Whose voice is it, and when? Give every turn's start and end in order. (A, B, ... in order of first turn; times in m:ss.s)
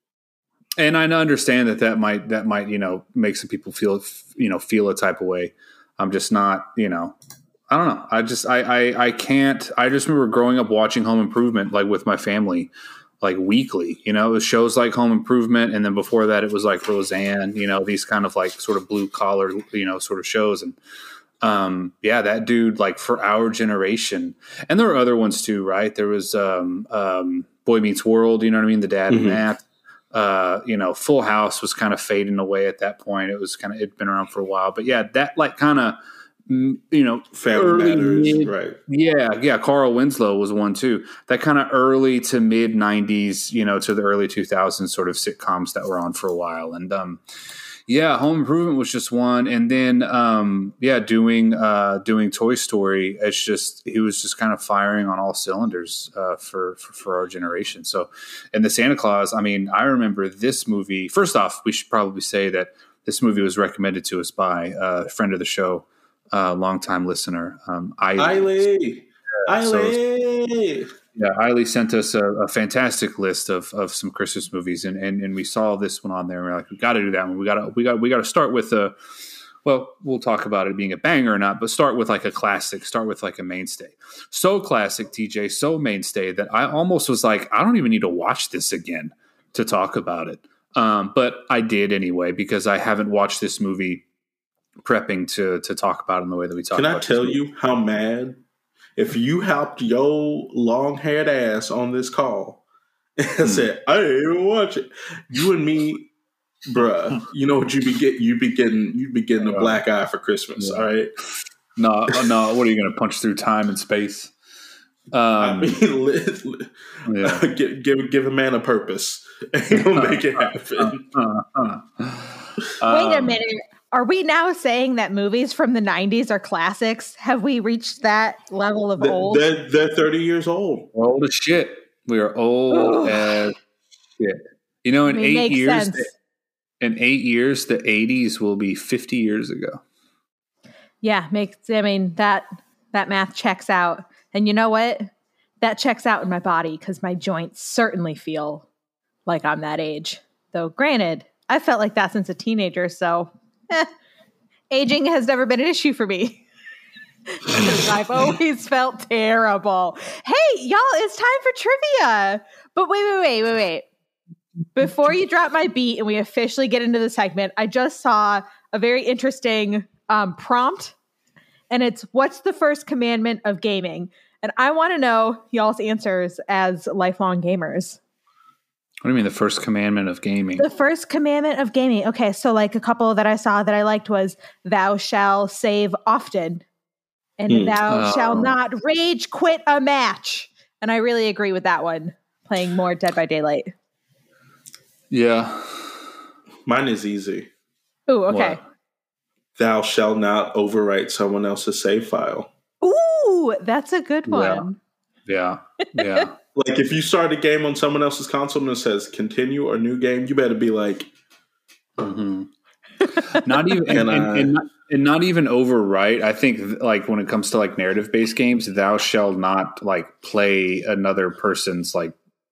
0:00.8-0:07.1 A
0:07.7-0:20.8 A
0:21.4-0:47.2 A
0:29.1-0:29.4 B
0:37.3-0:38.8 B
0:47.9-1:08.6 A
1:08.2-1:10.9 B
1:09.5-1:10.0 A
1:11.1-1:19.0 A
1:19.6-1:34.0 A
1:34.8-1:37.4 A
1:36.7-1:38.4 B
1:39.0-1:42.6 B
1:43.2-1:46.1 B
1:46.7-1:51.1 B
1:49.4-1:49.8 A
1:50.6-1:50.8 A
1:51.8-1:54.3 A
1:55.1-1:55.8 A
1:55.4-2:01.0 B
1:57.1-1:57.4 A
1:59.9-2:03.4 A
2:02.8-2:09.5 C
2:09.0-2:10.9 B
2:10.9-2:13.5 A
2:12.7-2:13.4 C
2:14.2-2:16.1 A
2:15.1-2:16.0 C
2:16.8-2:19.8 A
2:21.0-2:28.7 C
2:29.2-2:33.9 C
2:34.7-2:36.4 C
2:37.3-2:43.8 C
2:44.7-2:51.0 C
2:51.7-2:58.0 C
2:59.0-3:00.6 A
3:00.6-3:06.6 C
3:07.4-3:13.7 C
3:07.5-3:07.8 B
3:07.8-3:08.6 A
3:15.1-3:16.0 A
3:16.6-3:17.5 B
3:18.1-3:18.6 C
3:18.3-3:18.6 A
3:19.6-3:22.5 B
3:22.8-3:24.8 C
3:24.3-3:24.6 A
3:25.2-3:26.3 A
3:26.5-3:31.1 B
3:32.0-3:32.5 A
3:33.1-3:33.4 C
3:33.3-3:42.2 A
3:33.9-3:34.5 B